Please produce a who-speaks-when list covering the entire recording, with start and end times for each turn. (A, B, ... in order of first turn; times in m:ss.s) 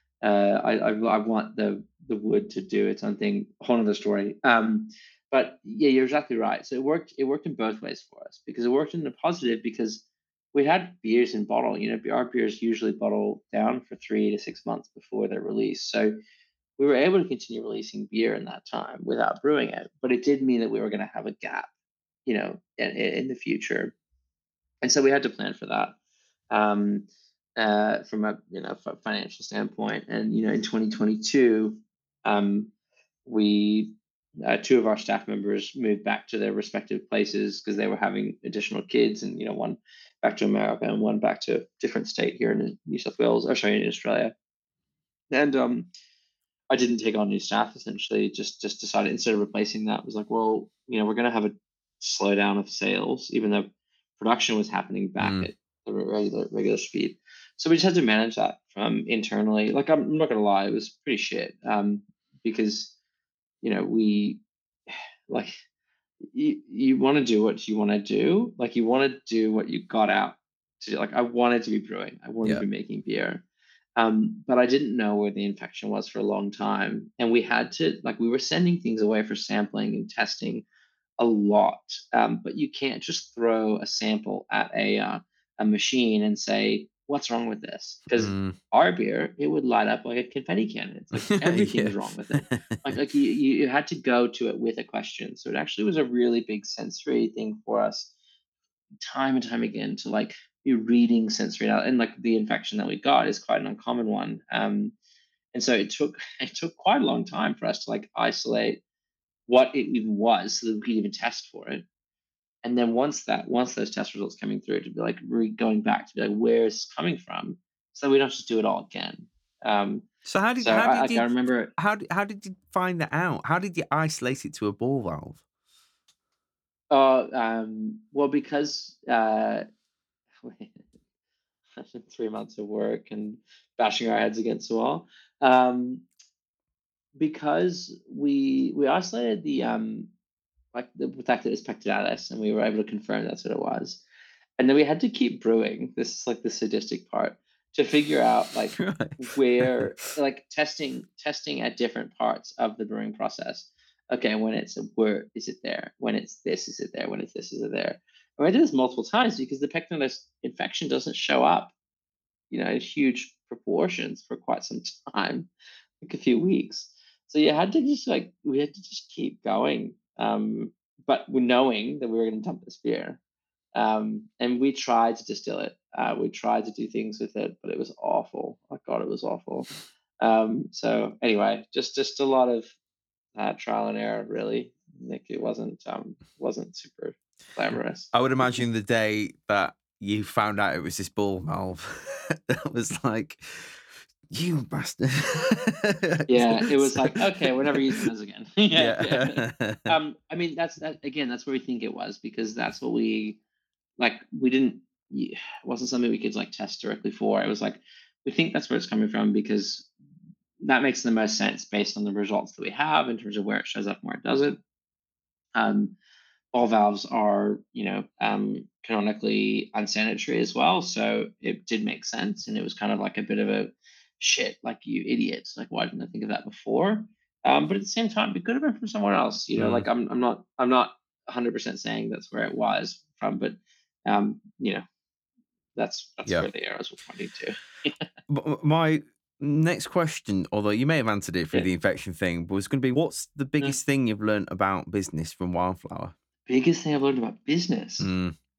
0:00.2-0:16.2 A
0:16.8-0:21.7 A
0:22.2-0:24.0 A
0:24.8-0:26.0 A
0:26.5-0:27.1 A
0:27.6-0:32.7 A
0:33.3-0:44.3 A
0:45.3-0:45.9 A
0:46.7-1:02.9 A
0:55.2-0:55.5 B
1:03.6-1:05.5 A
1:06.2-1:13.4 A
1:14.0-1:20.6 A
1:21.2-1:38.1 A
1:28.1-1:28.6 B
1:31.2-1:33.0 B
1:39.0-1:44.9 A
1:45.5-1:48.8 A
1:49.5-1:51.8 A
1:52.6-2:00.1 A
2:00.2-2:05.4 B
2:00.6-2:01.7 A
2:06.9-2:09.6 A
2:10.4-2:10.8 A
2:11.8-2:16.0 A
2:17.2-2:20.1 A
2:20.7-2:24.0 A
2:24.6-2:41.8 A
2:28.8-2:30.1 B
2:42.5-2:45.5 A
2:46.0-2:53.2 A
2:53.7-2:59.7 A
3:00.2-3:02.8 A
3:03.4-3:08.6 A
3:08.1-3:13.7 B
3:14.3-3:18.0 B
3:16.3-3:23.4 A
3:18.8-3:20.0 B
3:24.0-3:29.9 A
3:30.6-3:34.6 A
3:35.6-3:36.0 A
3:36.5-3:54.8 A
3:49.6-3:49.9 B
3:55.8-3:58.0 A
3:58.3-4:06.2 B
4:06.5-4:08.1 A
4:08.0-4:08.4 B